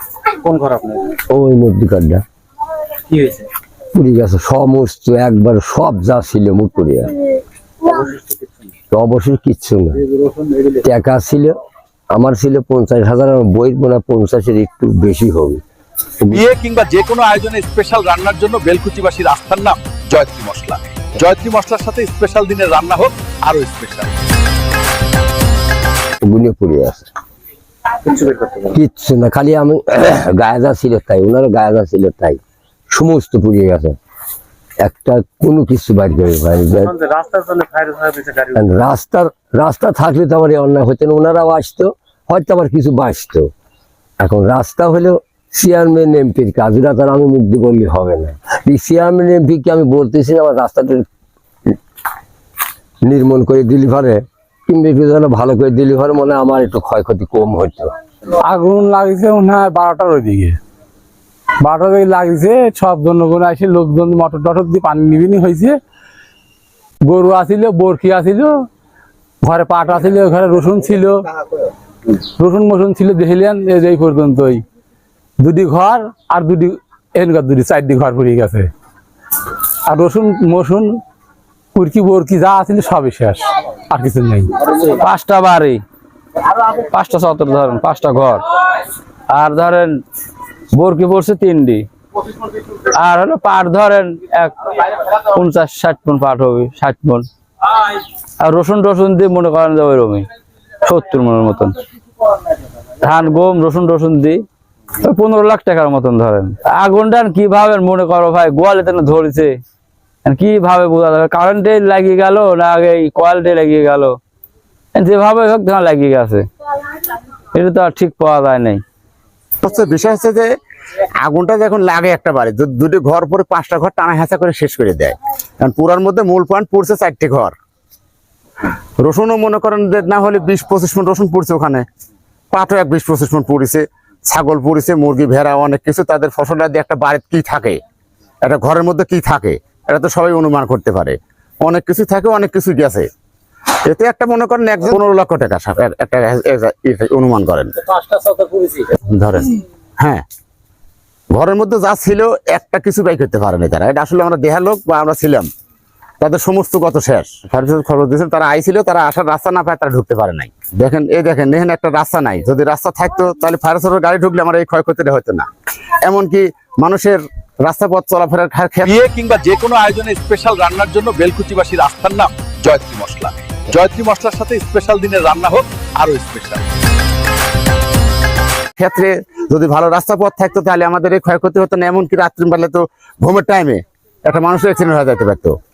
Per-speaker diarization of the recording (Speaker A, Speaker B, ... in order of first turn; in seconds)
Speaker A: 0.4-1.0, 3.1-3.5, 8.0-8.4, 37.0-38.5, 148.0-148.8
Speaker B: 1.1-2.2, 3.9-7.2, 8.9-10.0, 10.7-11.6, 12.1-15.6, 26.2-27.1, 28.3-32.4, 32.9-34.0, 34.8-37.0, 38.4-43.5, 44.2-51.0, 53.0-57.9
Speaker C: 16.3-24.1, 168.8-176.7
Speaker D: 58.5-60.6, 61.6-65.8, 67.1-68.7, 69.4-71.3, 72.4-74.6, 75.4-78.7, 79.9-81.0, 81.8-84.7
Speaker E: 84.8-85.8, 86.6-88.5, 89.3-90.0, 90.7-91.9, 92.7-97.3, 98.4-100.3, 100.8-101.8, 103.0-104.4, 105.0-109.6, 110.2-114.2, 115.0-116.5, 117.5-118.8
Speaker F: 119.6-120.5, 121.2-127.5, 129.0-131.8, 132.5-137.8, 138.4-143.1, 143.9-147.8, 148.8-150.2, 151.3-155.5, 156.2-165.5, 166.0-168.9, 178.8-185.6